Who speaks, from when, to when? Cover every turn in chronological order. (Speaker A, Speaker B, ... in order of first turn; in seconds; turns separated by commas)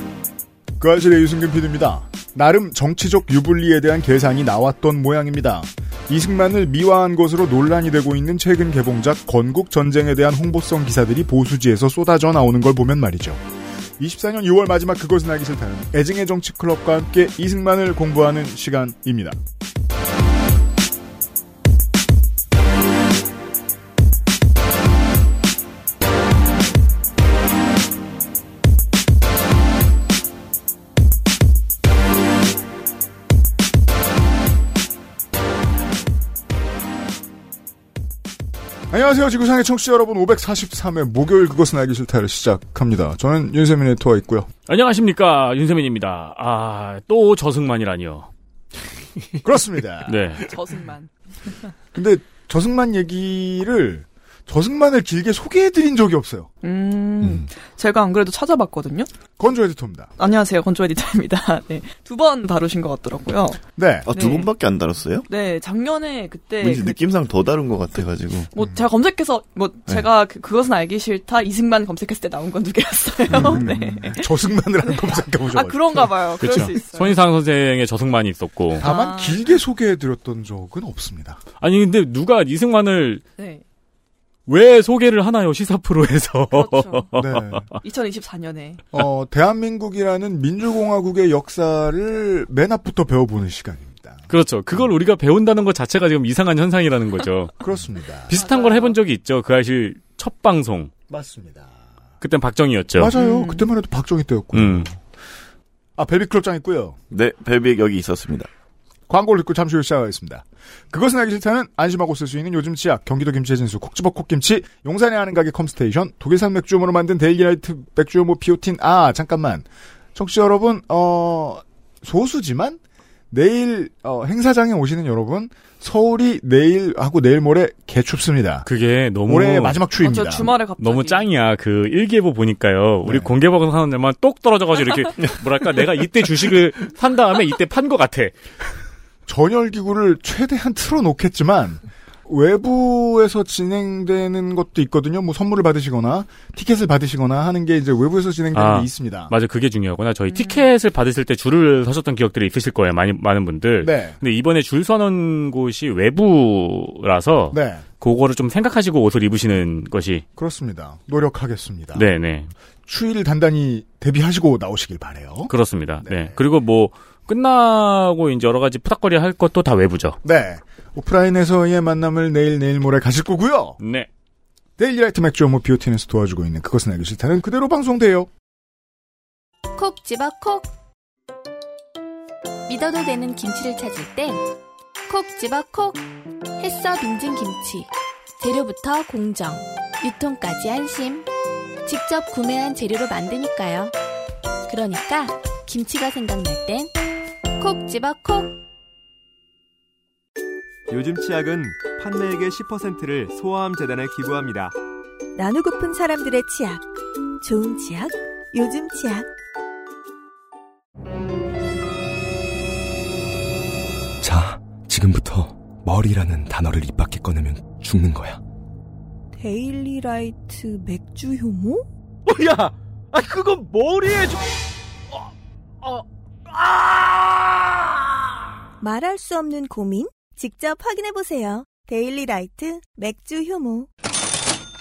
Speaker A: 0.8-13.4, Speaker A: 14.0-19.4, Speaker A: 38.9-44.5, Speaker B: 44.7-48.3, Speaker A: 49.4-50.3, Speaker B: 50.1-50.5, Speaker C: 50.4-51.1, Speaker A: 51.9-56.5, Speaker C: 56.6-59.1, Speaker A: 59.4-60.1, Speaker C: 60.2-64.5, Speaker A: 63.8-64.1, Speaker D: 64.1-65.3, Speaker C: 65.3-67.0, Speaker D: 66.6-68.5, Speaker C: 68.5-74.3, Speaker D: 73.3-74.0, Speaker A: 74.0-76.1, Speaker C: 74.8-77.1, Speaker B: 76.4-78.9, Speaker A: 78.8-81.4, Speaker C: 78.8-79.4, Speaker B: 81.6-83.2, Speaker C: 83.4-83.6, Speaker B: 84.5-87.8, Speaker C: 86.5-87.1, Speaker A: 87.2-87.7, Speaker C: 87.8-88.8, Speaker A: 88.9-94.2, Speaker B: 94.3-97.5, Speaker A: 97.6-98.3, Speaker B: 98.3-100.9, Speaker C: 98.3-99.0, Speaker A: 101.1-101.7, Speaker B: 102.2-103.1, Speaker A: 103.0-104.9, Speaker C: 103.1-103.7, Speaker B: 104.5-104.9, Speaker A: 106.0-107.0, Speaker D: 107.1-108.5, Speaker A: 109.1-122.8, Speaker A: 123.3-128.7, Speaker B: 128.6-129.8, Speaker A: 129.2-130.5, Speaker C: 130.0-131.2, Speaker B: 130.8-138.3, Speaker A: 133.0-133.3, Speaker A: 139.3-149.3, Speaker B: 148.5-160.2, Speaker C: 150.3-150.7, Speaker A: 153.8-154.2, Speaker A: 157.5-157.8, Speaker A: 160.4-162.1, Speaker B: 161.9-162.5, Speaker A: 162.9-165.5, Speaker B: 165.5-170.2, Speaker A: 166.0-166.3, Speaker A: 170.2-173.8, Speaker B: 173.8-174.1, Speaker A: 174.8-178.3, Speaker E: 179.8-180.7, Speaker E: 182.7-184.4, Speaker E: 185.1-186.0, Speaker E: 186.6-191.3, Speaker E: 191.8-193.9, Speaker E: 194.7-196.9, Speaker E: 197.6-198.6, Speaker F: 200.9-204.8, Speaker G: 205.3-206.9, Speaker G: 207.4-209.3, Speaker H: 214.2-218.4, Speaker G: 219.3-221.8, Speaker B: 222.3-224.4, Speaker B: 226.6-227.4, Speaker G: 228.8-233.9